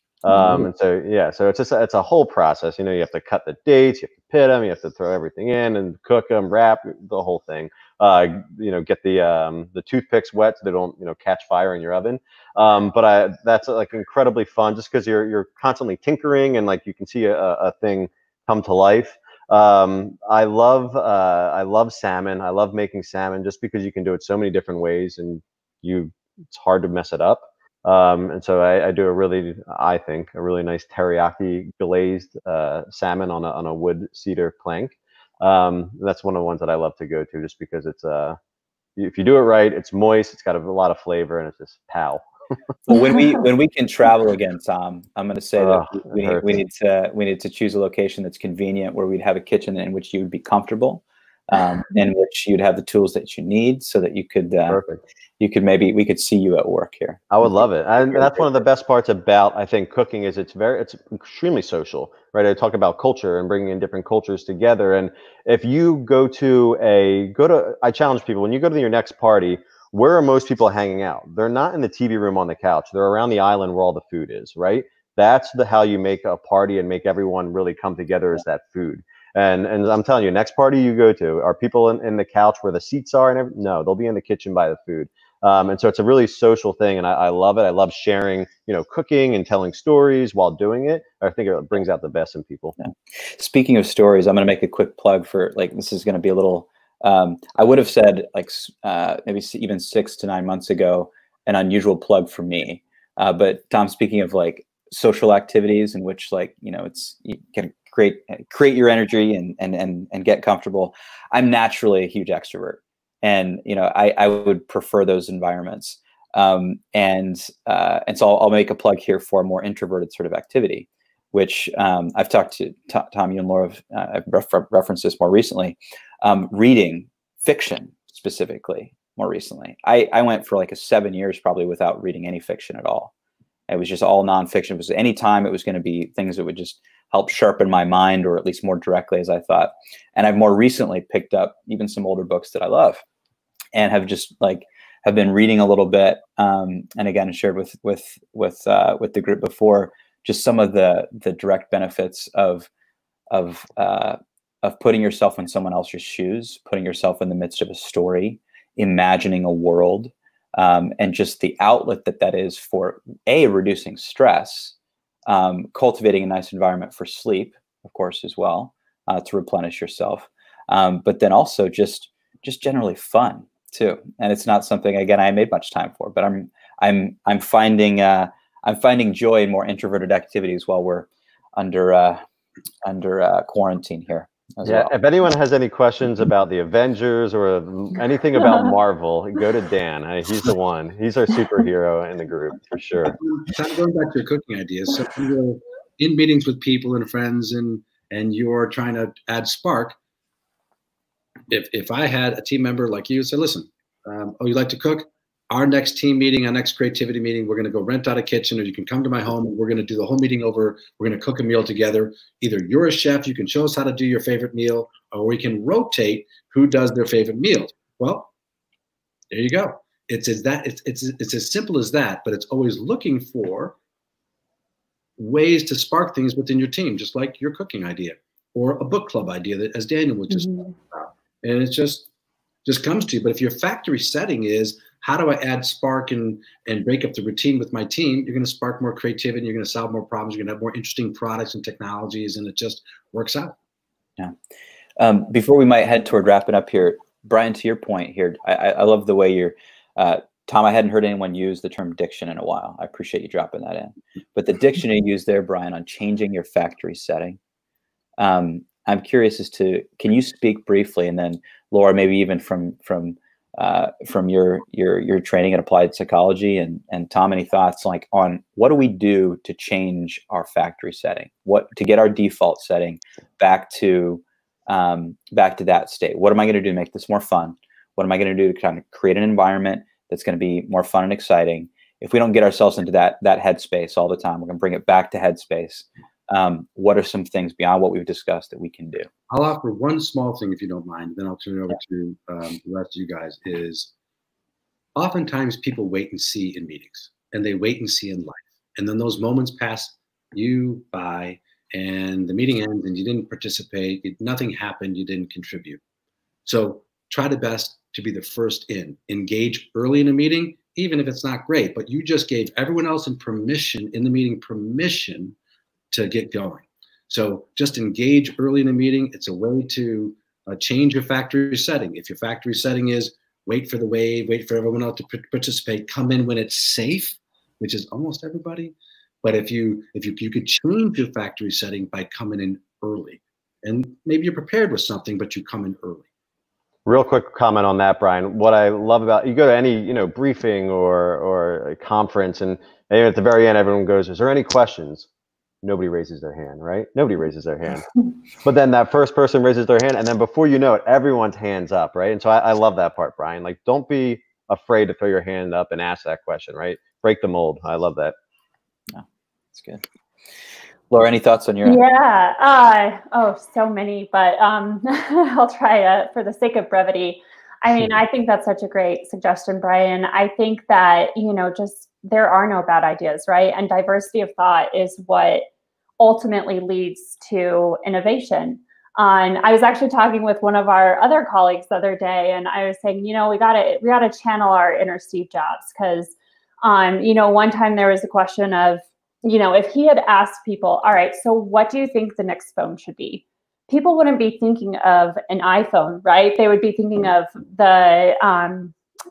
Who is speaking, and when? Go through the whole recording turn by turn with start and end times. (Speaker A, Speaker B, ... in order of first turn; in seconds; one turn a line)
Speaker A: 0.2-38.4
Speaker B: 0.3-0.6
Speaker A: 39.0-42.2
Speaker B: 42.9-54.8
Speaker A: 45.6-46.6
Speaker A: 54.7-55.0
Speaker B: 55.4-57.4
Speaker A: 57.3-92.7
Speaker B: 92.8-133.1
Speaker B: 133.7-143.0
Speaker B: 143.7-152.7
Speaker B: 153.3-164.7
Speaker B: 165.3-182.2
Speaker B: 182.8-184.9
Speaker A: 184.6-193.2
Speaker C: 193.1-199.9
Speaker C: 201.5-218.3
Speaker C: 219.3-223.8
Speaker C: 225.2-232.1
Speaker D: 230.3-230.7
Speaker C: 232.6-243.6
Speaker B: 245.0-257.4
Speaker B: 258.2-289.1
Speaker C: 289.3-293.9
Speaker C: 294.9-305.8
Speaker C: 306.4-315.3
Speaker C: 315.9-336.1
Speaker A: 336.9-345.1
Speaker A: 345.6-347.9
Speaker A: 348.4-358.1
Speaker B: 359.5-359.8
Speaker B: 360.9-361.8
Speaker D: 361.6-375.4
Speaker D: 376.0-398.7